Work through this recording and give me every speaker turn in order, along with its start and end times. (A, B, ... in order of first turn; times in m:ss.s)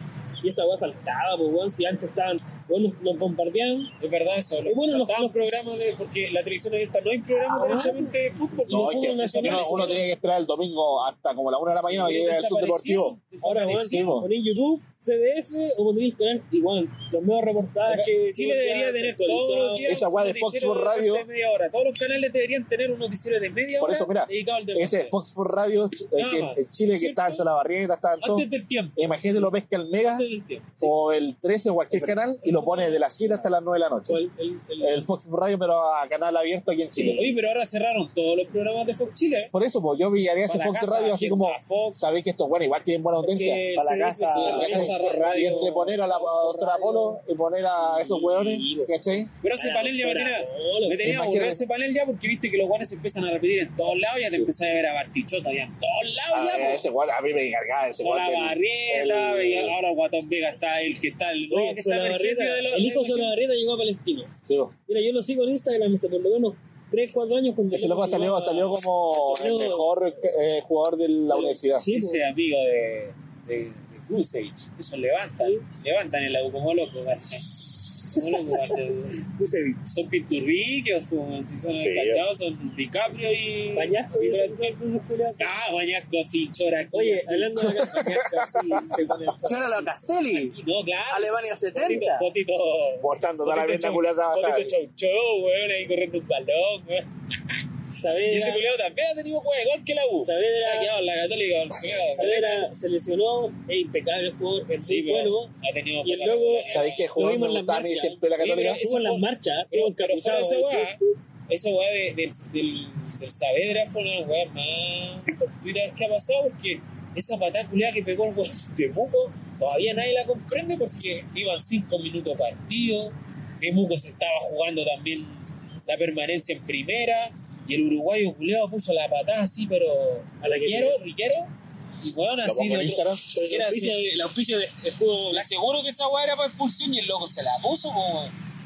0:00.4-0:03.9 A
0:04.0-0:10.1 B
0:04.7-0:05.4 A
0:07.4-0:08.0 A
0:08.7-0:10.0 A
0:08.7-0:13.2 C
0:11.9-0:14.2 B
0:13.4-0:20.0 A
0:13.8-0:14.3 C
0:17.9-0:25.1 B
0:19.9-0:21.2 C
0:23.8-0:30.2 C
0:26.2-0:27.4 B
0:28.2-0:29.0 B
0:30.2-0:30.9 A
0:30.8-0:34.2 C
0:31.9-0:33.4 A
0:34.1-0:35.1 A
0:34.8-0:37.3 C
0:37.1-0:39.5 B
0:39.5-0:43.7 C
0:40.4-0:42.0 B
0:43.2-0:47.2 A
0:43.7-0:44.8 D
0:44.3-0:49.3 C
0:44.4-0:45.8 B
0:47.8-0:48.9 A
0:49.4-0:56.8 B
0:49.5-0:51.2 A
0:51.0-0:51.6 C
0:56.3-0:59.8 C
0:58.0-1:03.4 B
1:01.5-1:04.3 A
1:04.4-1:04.7 C
1:04.9-1:09.9 A
1:07.7-1:11.9 C
1:11.3-1:12.2 A
1:11.9-1:19.3 B
1:15.4-1:15.6 A
1:19.3-1:19.8 A
1:19.9-1:24.6 B
1:21.8-1:22.2 C
1:23.7-1:25.5 A
1:25.4-1:27.8 B
1:26.9-1:29.9 A
1:27.6-1:28.8 C
1:29.4-1:30.6 D
1:30.2-1:37.6 B
1:31.1-1:32.3 D
1:33.0-1:34.7 C
1:37.9-1:38.7 A
1:38.2-1:42.7 B
1:40.2-1:40.9 A
1:42.1-1:45.5 A
1:44.8-1:47.1 B
1:46.0-1:51.1 A
1:46.7-1:48.8 C
1:48.4-2:14.0 B
2:10.4-2:11.0 A
2:12.4-2:13.2 C
2:13.3-2:15.5 A
2:15.3-2:18.3 B